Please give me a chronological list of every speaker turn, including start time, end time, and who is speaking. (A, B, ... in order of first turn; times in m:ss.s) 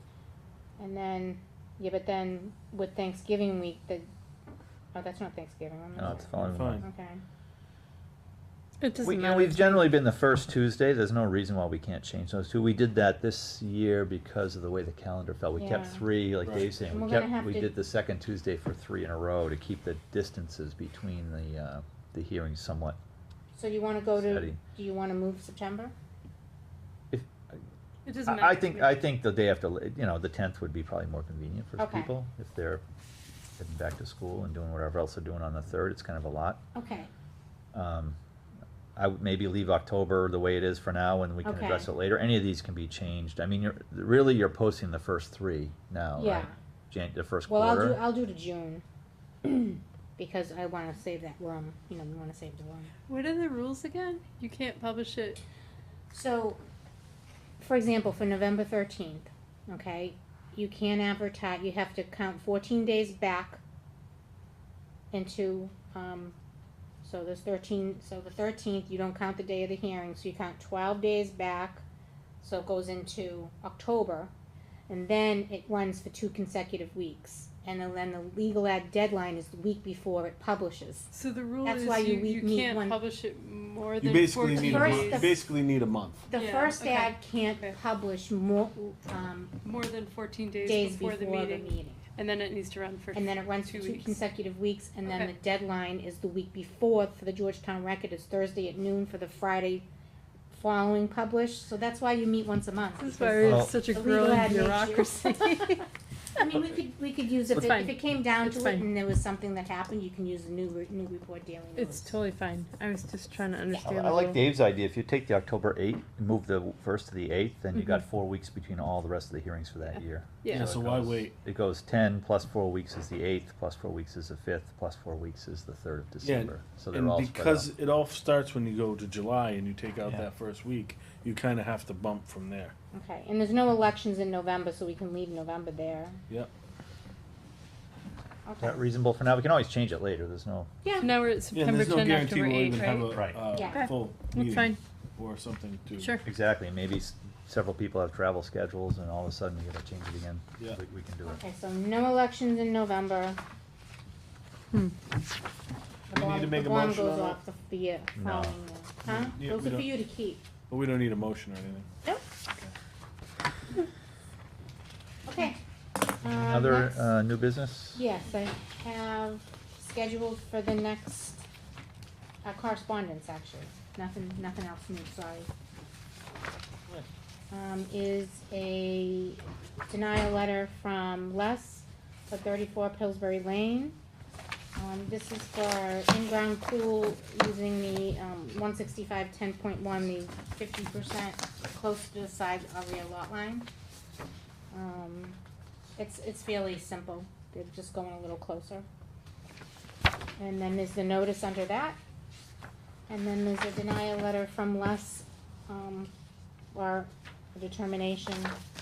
0:00.8-0:04.1 A
0:04.9-0:07.2 A
0:06.0-0:06.8 B
0:06.2-0:06.8 C
0:08.8-0:09.9 D
0:09.0-0:23.0 B
0:15.6-0:16.0 A
0:16.4-0:16.7 C
0:16.9-0:17.7 A
0:23.6-0:25.9 A
0:24.2-0:24.6 B
0:27.1-0:27.6 B
0:28.0-0:29.0 D
0:28.3-0:32.8 B
0:31.8-0:32.1 A
0:33.6-0:36.6 B
0:36.7-0:37.1 A
0:37.7-0:38.2 B
0:39.0-0:48.0 B
0:41.4-0:41.9 A
0:46.2-0:46.6 A
0:47.5-0:48.8 A
0:49.4-0:52.9 A
0:53.1-0:55.4 D
0:56.1-0:56.6 A
0:57.6-1:03.6 A
1:05.1-1:06.4 A
1:07.0-1:11.8 A
1:12.4-1:14.3 A
1:14.9-1:21.1 A
1:21.1-1:25.4 D
1:21.6-1:23.0 A
1:24.0-1:26.2 C
1:24.5-1:25.4 A
1:26.3-1:29.5 A
1:26.3-1:27.8 D
1:29.6-1:34.2 D
1:30.6-1:32.0 A
1:33.1-1:39.9 A
1:40.5-1:45.8 A
1:43.0-1:45.8 D
1:43.4-1:43.7 B
1:46.4-1:52.2 A
1:47.5-1:48.9 D
1:51.8-1:54.4 D
1:53.8-2:07.7 B
2:00.4-2:00.7 D
2:00.5-2:01.3 C
2:06.2-2:12.7 C
2:12.9-2:16.2 A
2:18.4-2:18.8 A
2:18.6-2:20.7 B
2:20.8-2:21.1 A
2:21.0-2:24.8 D
2:21.5-2:26.2 C
2:23.1-2:23.4 B
2:23.5-2:23.9 A
2:26.0-2:26.2 D
2:26.2-2:31.4 B
2:31.2-2:33.4 A
2:36.1-2:40.4 A
2:36.1-2:37.4 C
2:38.2-2:38.6 B
2:39.0-2:39.9 C
2:40.7-2:41.9 C
2:45.2-2:45.6 A
2:46.2-2:47.0 A
2:46.4-2:48.0 B
2:48.0-2:51.5 A
2:52.4-2:55.5 A
2:57.5-3:04.0 A
3:04.8-3:13.7 A
3:14.7-3:15.4 A
3:16.0-3:18.9 A
3:20.4-3:22.0 A
3:23.1-3:26.1 A
3:26.7-3:28.6 A